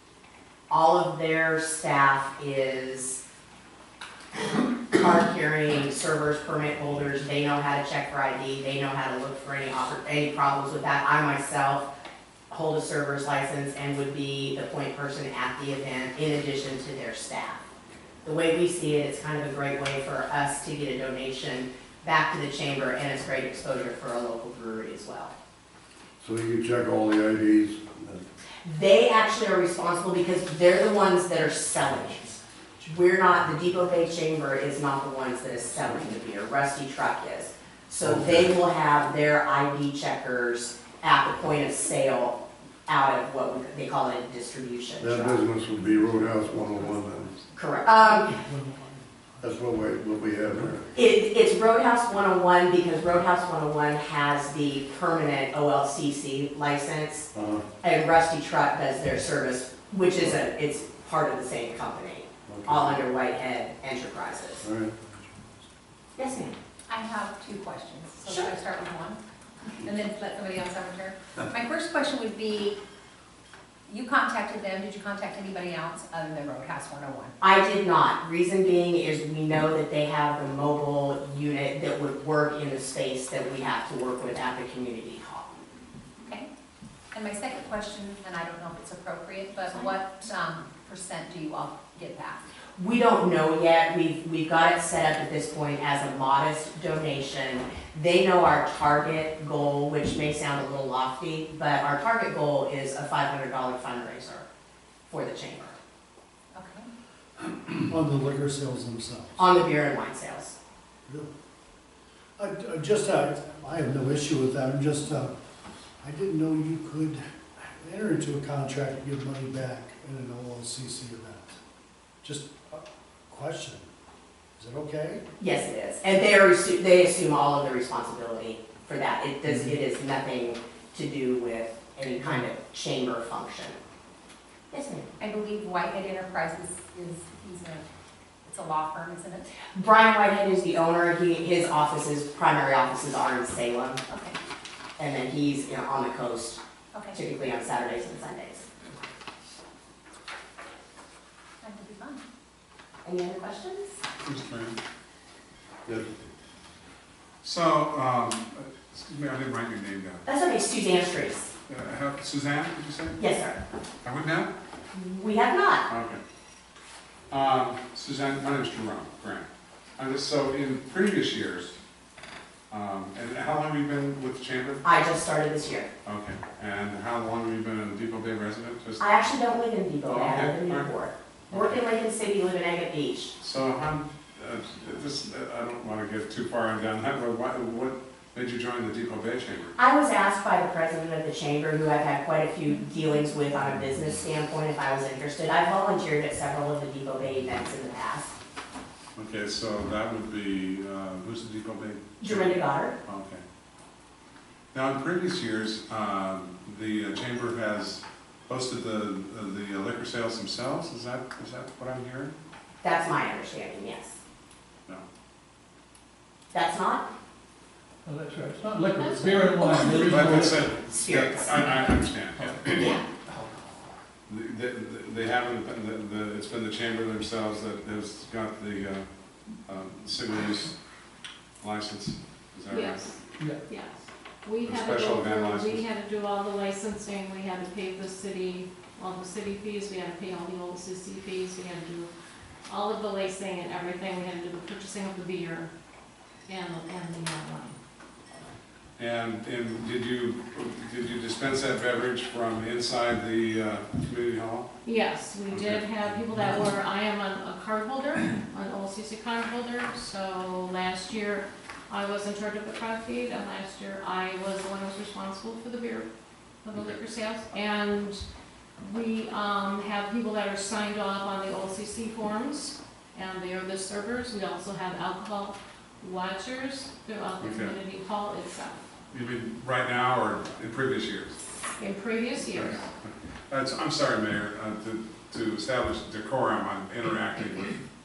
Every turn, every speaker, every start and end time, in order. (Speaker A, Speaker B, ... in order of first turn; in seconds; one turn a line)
Speaker A: 0.7-3.2
Speaker A: 4.9-11.9
Speaker A: 12.5-17.6
Speaker A: 18.2-25.3
Speaker B: 26.2-28.2
Speaker A: 28.6-45.4
Speaker B: 38.0-38.5
Speaker B: 45.0-47.3
Speaker C: 45.7-47.5
Speaker A: 47.5-48.3
Speaker C: 48.0-49.9
Speaker B: 49.4-50.9
Speaker C: 50.5-50.8
Speaker A: 50.9-57.3
Speaker B: 57.3-57.6
Speaker A: 57.8-64.7
Speaker B: 62.5-63.0
Speaker B: 64.6-64.9
Speaker C: 65.0-65.7
Speaker A: 66.2-66.5
Speaker D: 66.9-72.8
Speaker D: 73.9-77.3
Speaker A: 77.4-85.5
Speaker D: 86.2-86.5
Speaker D: 87.1-92.4
Speaker A: 92.8-104.5
Speaker A: 105.1-105.8
Speaker D: 106.5-106.9
Speaker C: 107.8-109.4
Speaker A: 109.4-110.5
Speaker C: 112.4-115.3
Speaker C: 116.0-121.6
Speaker C: 122.2-123.9
Speaker C: 124.6-125.2
Speaker A: 125.4-133.8
Speaker A: 134.7-135.1
Speaker D: 135.2-137.9
Speaker D: 138.4-139.5
Speaker A: 139.7-144.0
Speaker D: 144.1-144.4
Speaker A: 145.0-146.6
Speaker A: 147.1-148.7
Speaker D: 151.6-152.2
Speaker A: 153.0-154.0
Speaker E: 154.2-154.8
Speaker E: 157.4-160.2
Speaker A: 160.2-161.5
Speaker E: 161.7-163.2
Speaker A: 163.2-163.6
Speaker E: 164.0-164.5
Speaker A: 164.9-165.8
Speaker E: 165.9-166.2
Speaker E: 167.3-171.8
Speaker E: 172.7-174.8
Speaker A: 174.8-175.9
Speaker E: 176.0-179.0
Speaker A: 179.0-183.3
Speaker E: 180.1-180.9
Speaker E: 181.5-181.8
Speaker E: 183.4-189.7
Speaker A: 189.8-198.3
Speaker E: 199.1-203.4
Speaker A: 202.2-202.9
Speaker E: 204.7-212.4
Speaker A: 212.8-214.2
Speaker A: 216.5-217.1
Speaker F: 218.0-221.3
Speaker E: 219.9-222.7
Speaker A: 220.9-221.6
Speaker F: 222.3-223.5
Speaker E: 224.3-229.1
Speaker E: 229.7-230.7
Speaker E: 231.6-233.1
Speaker G: 232.7-242.1
Speaker E: 234.6-235.8
Speaker G: 242.7-245.7
Speaker G: 246.5-247.8
Speaker E: 249.0-254.7
Speaker G: 254.8-266.1
Speaker E: 255.5-256.4
Speaker G: 266.6-268.2
Speaker E: 266.7-267.0
Speaker G: 268.8-278.8
Speaker E: 277.4-277.8
Speaker E: 279.1-281.4
Speaker G: 281.8-282.9
Speaker E: 282.5-287.8